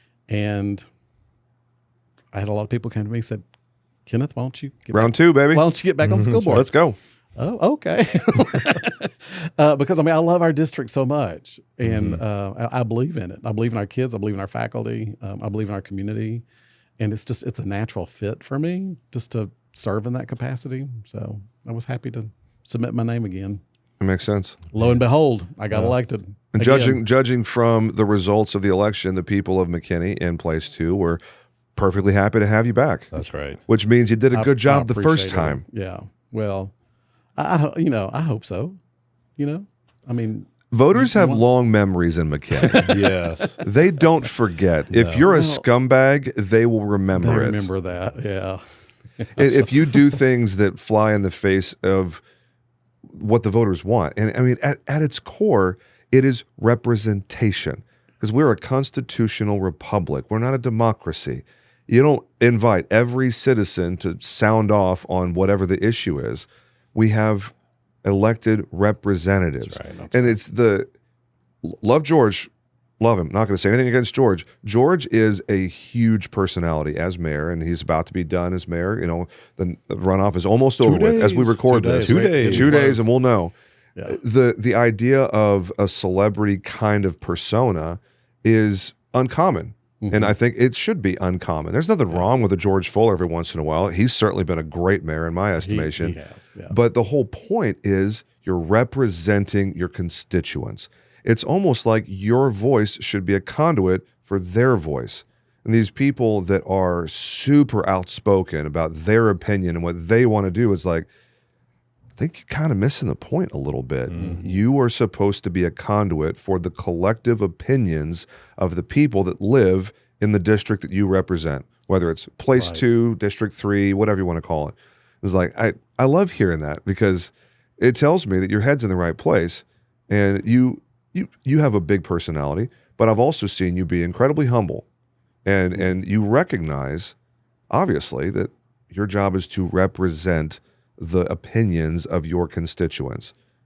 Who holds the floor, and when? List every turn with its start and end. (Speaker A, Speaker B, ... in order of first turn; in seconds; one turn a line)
Speaker A: 0.3-0.8
Speaker A: 2.3-3.4
Speaker A: 4.0-6.7
Speaker B: 4.9-5.6
Speaker C: 6.0-6.6
Speaker B: 6.5-7.0
Speaker A: 7.3-16.4
Speaker C: 11.8-12.2
Speaker A: 17.0-23.6
Speaker B: 24.0-24.6
Speaker A: 24.7-27.0
Speaker B: 26.5-31.2
Speaker B: 31.8-33.1
Speaker C: 33.1-33.6
Speaker B: 33.7-35.6
Speaker A: 34.3-36.7
Speaker A: 37.4-38.8
Speaker A: 39.4-41.4
Speaker B: 40.7-42.8
Speaker A: 42.6-43.0
Speaker C: 42.8-43.6
Speaker B: 43.6-47.7
Speaker C: 44.9-45.3
Speaker A: 45.2-45.7
Speaker A: 47.1-48.6
Speaker A: 49.2-50.0
Speaker B: 49.4-52.2
Speaker B: 53.1-67.5
Speaker B: 68.0-70.9
Speaker C: 69.6-70.2
Speaker B: 71.6-83.5
Speaker C: 80.8-83.0
Speaker A: 81.6-83.1
Speaker B: 84.0-96.2
Speaker A: 90.0-90.3
Speaker A: 95.6-96.7
Speaker B: 96.7-111.1
Speaker B: 112.2-134.8
Speaker C: 114.1-114.4
Speaker A: 114.2-114.5
Speaker A: 122.5-122.8
Speaker B: 135.4-137.1
Speaker B: 137.7-143.3